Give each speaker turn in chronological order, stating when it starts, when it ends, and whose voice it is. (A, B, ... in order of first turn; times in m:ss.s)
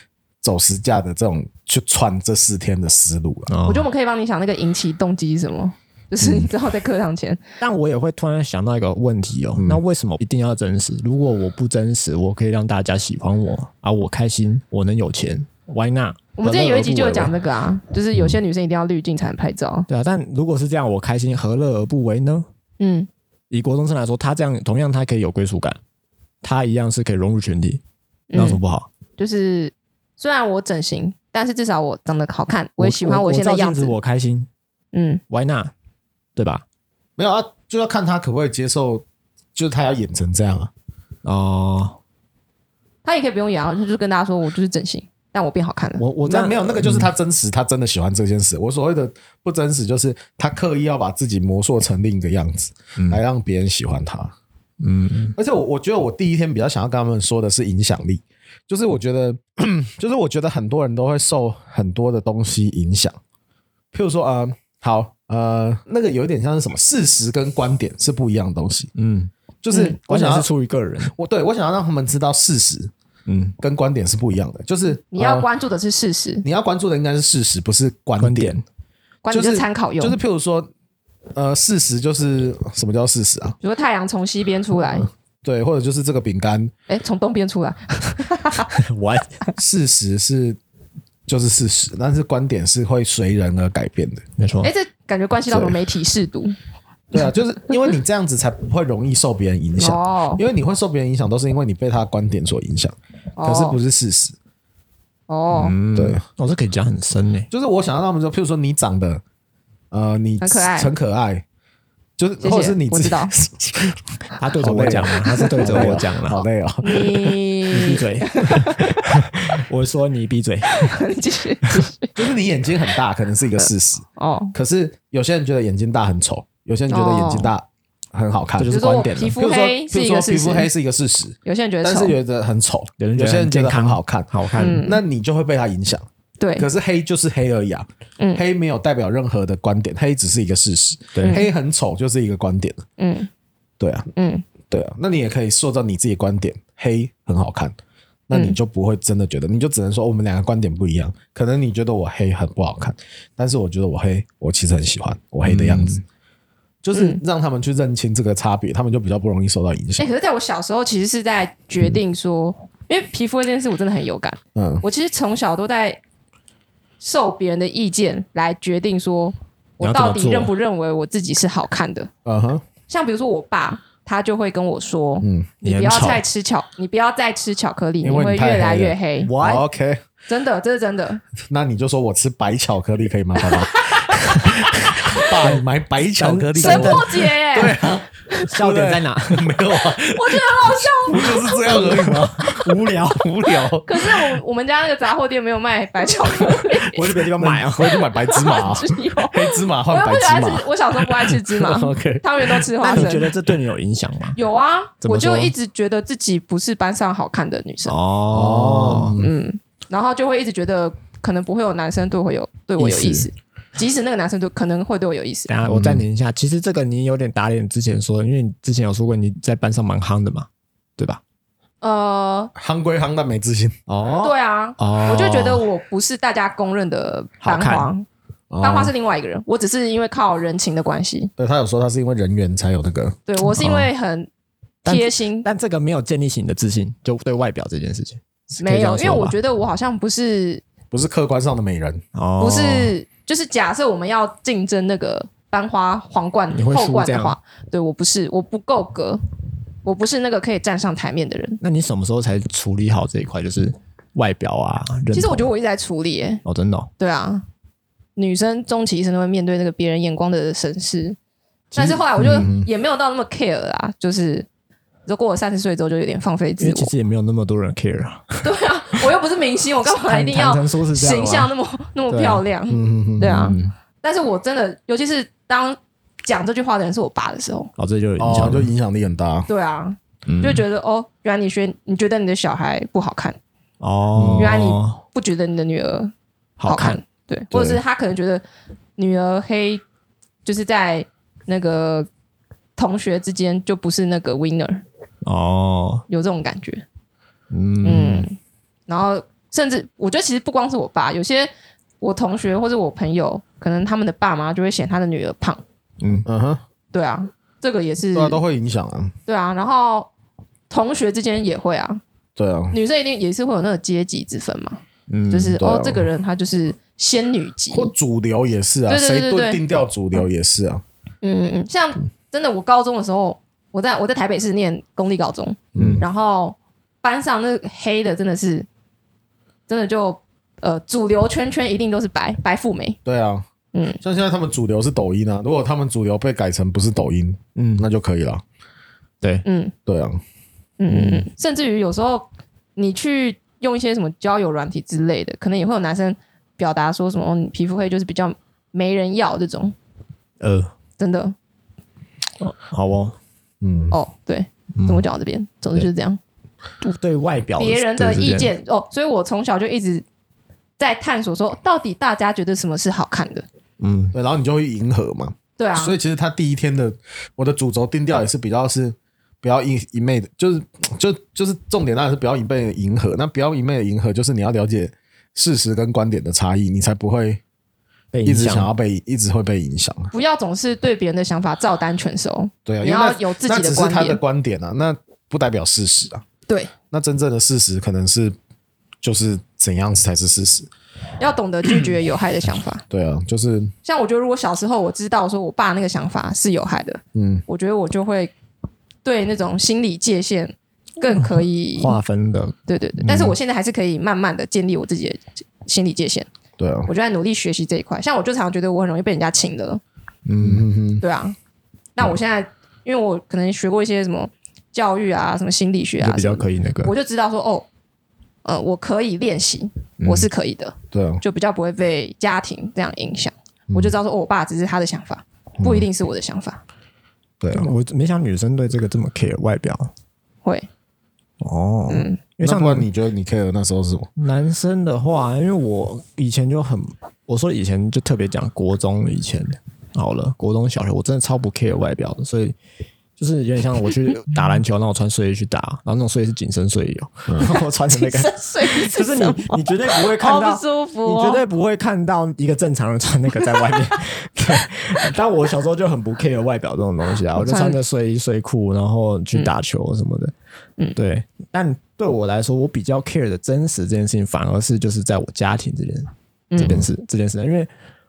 0:00.4-0:03.5 A
0:03.5-0:03.9 B
0:03.6-0:07.4 C
0:07.6-0:17.3 B
0:16.4-0:19.9 C
0:19.9-0:22.4 B
0:22.8-0:23.1 C
0:23.5-0:25.8 B
0:26.4-0:27.8 B
0:28.3-0:28.6 C
0:28.3-0:28.9 B
0:29.2-0:33.9 C
0:32.8-0:34.5 B
0:34.9-0:35.2 C
0:35.3-0:35.7 B
0:36.4-0:36.6 B
0:37.2-0:39.0 A
0:39.5-0:40.7 A
0:41.2-0:42.0 B
0:43.0-0:46.0 C
0:46.0-0:47.1 B
0:46.2-0:54.3 A
0:53.0-0:53.2 B
0:54.8-0:55.4 B
0:55.4-1:03.2 A
1:03.9-1:08.9 A
1:09.0-1:09.3 B
1:09.6-1:10.5 A
1:10.0-1:11.1 B
1:11.1-1:12.9 A
1:13.3-1:13.6 B
1:13.6-1:15.5 A
1:15.1-1:16.4 C
1:16.4-1:18.6 A
1:18.2-1:18.6 B
1:19.2-1:20.2 C
1:19.3-1:20.7 A
1:21.3-1:23.6 A
1:23.6-1:25.1 C
1:25.4-1:26.7 A
1:26.9-1:28.7 C
1:28.7-1:29.4 B
1:29.6-1:30.6 A
1:31.3-1:34.2 A
1:34.4-1:34.7 B
1:34.6-1:36.6 C
1:35.5-1:35.8 A
1:37.1-1:44.3 A
1:39.8-1:40.4 C
1:43.4-1:43.8 C
1:45.3-1:45.8 C
1:45.5-1:47.5 B
1:45.9-1:46.2 A
1:47.5-1:49.2 A
1:49.9-1:51.4 A
1:50.4-1:50.9 C
1:52.2-1:54.0 A
1:52.4-1:53.3 C
1:54.4-1:56.5 B
1:54.6-1:57.3 A
1:56.8-1:59.0 C
1:57.7-2:01.0 B
2:00.7-2:02.2 C
2:02.1-2:16.0 A
2:04.2-2:04.5 C
2:06.9-2:07.5 C
2:08.6-2:09.4 B
2:08.7-2:10.7 C
2:11.4-2:12.1 C
2:13.0-2:14.8 B
2:14.6-2:15.0 C
2:16.4-2:16.7 C
2:16.6-2:22.8 A
2:21.1-2:21.4 B
2:23.0-2:23.3 C
2:23.8-2:24.1 A
2:24.2-2:24.4 C
2:24.7-2:27.7 A
2:28.3-2:36.0 A
2:28.3-2:28.6 C
2:35.4-2:36.0 B
2:36.8-2:40.1 A
2:36.9-2:37.2 C
2:40.0-2:46.0 C
2:44.6-2:44.8 A
2:47.0-2:52.1 C
2:49.8-2:50.5 B
2:52.2-2:52.6 A
2:52.9-2:59.3 C
2:55.2-2:55.5 A
2:55.6-2:56.2 B
2:58.0-3:00.0 A
2:59.2-2:59.6 B
3:00.3-3:01.2 C
3:01.5-3:13.9 A
3:03.4-3:04.4 C
3:06.2-3:07.1 B
3:06.6-3:08.5 C
3:08.5-3:09.6 B
3:10.0-3:11.9 C
3:11.7-3:13.2 B
3:13.8-3:17.0 C
3:16.7-3:18.0 B
3:17.2-3:23.0 A
3:18.2-3:23.3 C
3:22.8-3:24.4 B
3:24.3-3:28.0 C
3:25.0-3:25.5 B
3:27.8-3:29.2 B
3:28.3-3:29.3 A
3:29.2-3:35.5 C
3:32.8-3:33.3 B
3:35.5-3:41.2 B
3:35.6-3:36.0 A
3:41.8-3:42.5 C
3:42.6-3:43.8 A
3:43.9-3:45.7 B
3:44.2-3:48.0 C
3:47.4-3:47.9 B
3:48.5-3:48.9 A
3:48.6-3:51.3 C
3:51.4-3:53.2 A
3:53.3-3:54.3 C
3:53.4-3:53.9 B
3:54.8-3:59.4 B
3:54.8-3:55.5 C
3:58.6-4:00.6 C
4:00.9-4:02.0 A
4:02.1-4:02.9 B
4:02.4-4:09.2 C
4:06.5-4:07.4 B
4:09.8-4:11.6 C
4:11.6-4:15.5 B
4:15.1-4:16.4 C
4:16.4-4:16.9 B
4:17.0-4:17.4 C
4:18.2-4:21.2 C
4:21.7-4:22.5 B
4:21.7-4:24.5 C
4:22.2-4:22.7 A
4:25.0-4:26.9 C
4:26.6-4:28.5 B
4:28.4-4:37.7 C
4:29.8-4:31.5 B
4:32.1-4:32.4 B
4:32.7-4:33.4 A
4:33.2-4:33.7 B
4:37.8-4:38.7 B
4:38.2-4:39.5 A
4:39.5-4:43.4 C
4:40.2-4:40.6 B
4:43.8-4:45.0 B
4:44.2-4:44.6 A
4:44.4-4:46.1 C
4:46.6-4:47.0 B
4:46.6-4:48.4 C
4:47.5-4:47.8 A
4:49.0-4:49.8 C
4:50.4-4:52.1 C
4:52.8-4:54.8 C
4:55.2-4:56.0 B
4:56.1-4:56.8 C
4:57.5-4:58.2 B
4:57.8-4:58.4 C
4:58.9-5:01.5 C
5:02.0-5:05.6 C
5:06.0-5:06.2 B
5:06.2-5:06.6 A
5:06.9-5:08.4 C
5:08.1-5:09.1 A
5:09.3-5:10.1 C
5:10.7-5:12.0 C
5:12.4-5:12.8 A
5:12.7-5:17.9 C
5:15.1-5:15.6 B
5:15.6-5:16.0 A
5:17.7-5:20.8 A
5:18.9-5:19.6 C
5:21.2-5:28.7 C
5:25.7-5:26.0 A
5:25.8-5:26.0 B
5:29.7-5:33.0 C
5:33.0-5:33.4 A
5:33.7-5:34.0 C
5:34.0-5:38.4 A
5:37.6-5:37.9 B
5:39.4-5:39.7 C
5:39.9-5:40.2 A
5:40.8-5:49.7 C
5:40.9-5:41.2 B
5:50.4-5:50.7 B
5:51.0-5:51.3 C
5:52.4-5:53.2 B
5:53.6-5:54.0 A
5:53.9-5:56.2 C
5:54.8-5:55.0 B
5:56.8-5:58.5 B
5:57.6-6:00.0 C
6:00.8-6:03.4 C
6:03.8-6:04.1 B
6:04.1-6:17.4 A
6:05.6-6:06.0 C
6:18.1-6:18.7 B
6:18.2-6:20.1 A
6:20.1-6:24.2 C
6:22.6-6:26.2 A
6:26.9-6:28.3 A
6:29.0-6:30.7 A
6:31.2-6:32.8 C
6:32.9-6:33.7 A
6:33.8-6:38.3 C
6:37.1-6:37.4 A
6:39.0-6:42.0 C
6:41.1-6:43.3 B
6:42.7-6:46.3 C
6:46.6-6:46.9 A
6:46.8-6:49.8 C
6:50.2-6:50.6 B
6:50.4-6:51.0 A
6:51.0-6:51.4 C
6:52.0-6:57.7 C
6:56.0-6:56.9 B
6:58.4-7:06.6 C
7:00.0-7:00.3 B
7:00.9-7:01.2 A
7:07.4-7:07.7 A
7:07.5-7:09.9 B
7:11.4-7:12.9 B
7:11.9-7:12.2 C
7:12.4-7:14.1 A
7:14.2-7:22.6 B
7:23.2-7:40.3 B
7:27.9-7:31.4 C
7:37.4-7:37.8 C
7:41.0-7:47.7 B
7:46.5-7:46.9 C